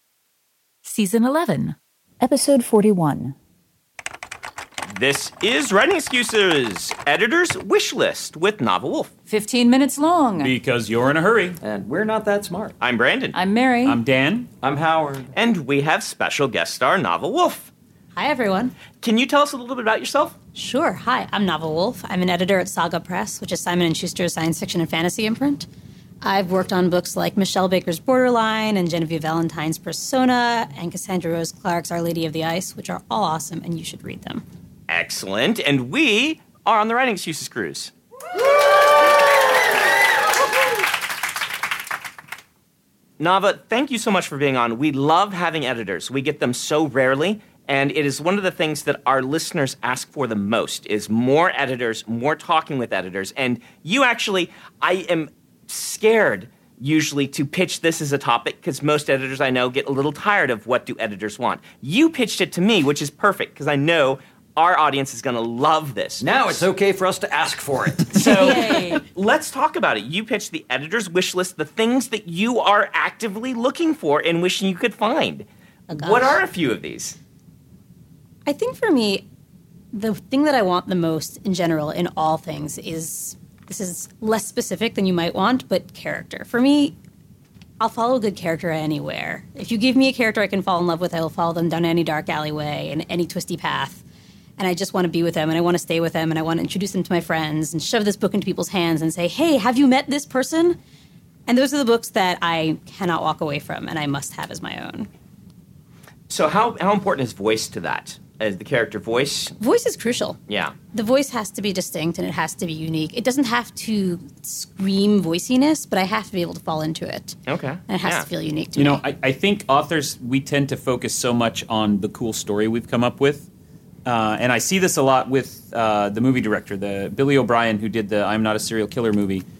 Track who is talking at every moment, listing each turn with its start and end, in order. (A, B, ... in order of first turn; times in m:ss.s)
0:00.8-0:03.3 A
0:04.9-0:09.1 B
0:09.3-0:10.5 C
0:10.4-0:11.6 D
0:11.6-0:12.7 E
0:12.8-0:13.4 B
0:13.4-0:13.9 C
0:13.8-0:14.5 D
0:14.6-0:15.3 E
0:15.3-0:17.7 B
0:18.1-0:18.7 F
0:19.0-0:20.3 B
0:20.5-0:25.6 F
0:26.2-0:34.4 F
0:34.9-0:37.9 B
0:43.2-1:06.7 B
1:06.2-1:08.6 E
1:08.1-1:17.2 B
1:08.5-1:09.0 C
1:15.9-1:16.4 F
1:18.4-1:19.2 F
1:19.9-1:26.9 F
1:27.8-1:34.0 F
1:34.6-1:40.8 F
1:41.5-1:45.1 F
1:46.3-1:49.5 B
1:49.6-1:50.4 F
1:50.5-1:50.7 B
1:50.9-1:59.0 F
1:57.5-1:58.3 B
1:58.8-2:03.5 D
2:04.0-2:09.4 D